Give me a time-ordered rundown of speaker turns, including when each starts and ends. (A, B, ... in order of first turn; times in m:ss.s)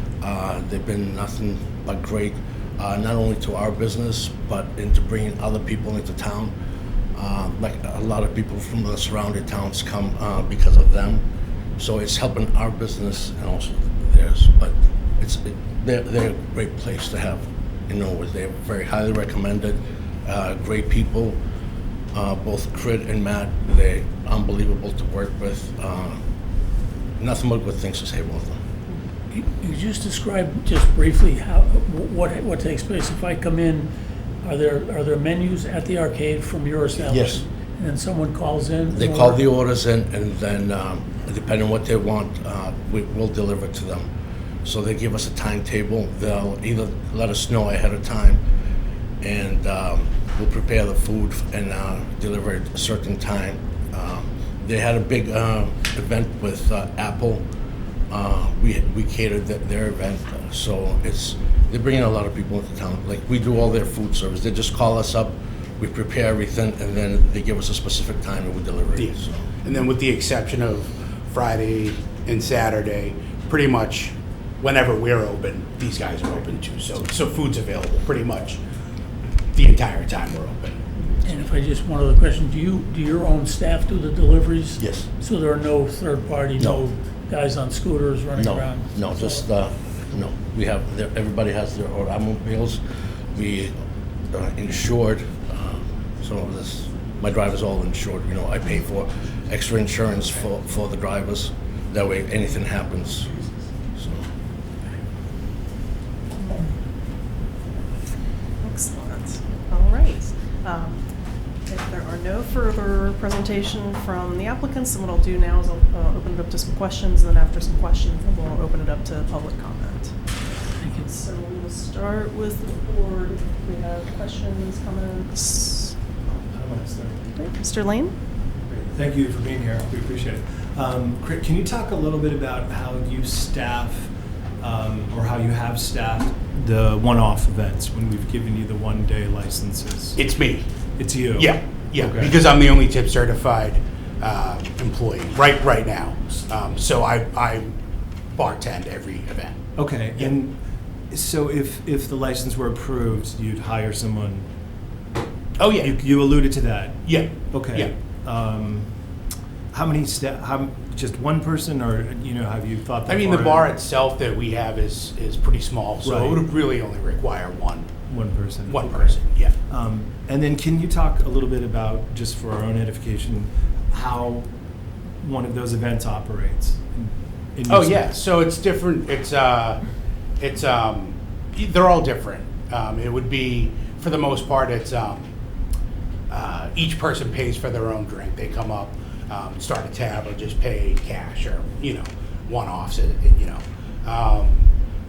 0:00.2-0:06.5 A
0:07.2-0:11.2 A
0:11.8-0:21.4 A
0:22.1-0:26.2 A
0:27.2-0:28.6 A
0:29.3-0:33.9 B
0:34.4-0:39.4 B
0:37.1-0:37.4 A
0:38.9-0:44.1 A
0:44.6-0:48.4 A
0:49.2-0:57.4 A
0:58.1-1:09.5 A
1:09.0-1:18.6 C
1:19.5-1:20.9 C
1:21.2-1:29.4 B
1:24.8-1:25.1 A
1:28.4-1:32.8 A
1:33.3-1:33.7 A
1:34.3-1:43.3 A
1:43.9-1:44.2 A
1:46.4-1:46.7 D
1:48.6-1:51.0 D
1:51.7-2:00.1 D
2:00.8-2:01.1 B
2:00.9-2:05.9 D
2:06.3-2:07.2 E
2:07.4-2:08.2 D
2:08.7-2:20.2 E
2:20.2-2:20.7 C
2:21.0-2:22.4 E
2:21.4-2:27.7 C
2:28.4-2:29.6 C
2:29.8-2:30.6 E
2:31.1-2:34.5 E
2:35.6-2:36.0 C
2:35.8-2:38.9 E
2:37.1-2:37.9 C
2:39.7-2:43.7 E
2:43.1-2:47.9 C
2:46.0-2:46.4 E
2:48.1-2:49.2 E
2:48.7-2:49.5 C
2:49.7-2:54.5 E
2:55.2-2:58.1 E
2:57.7-2:59.8 C
3:00.4-3:05.3 C
3:06.3-3:14.7 C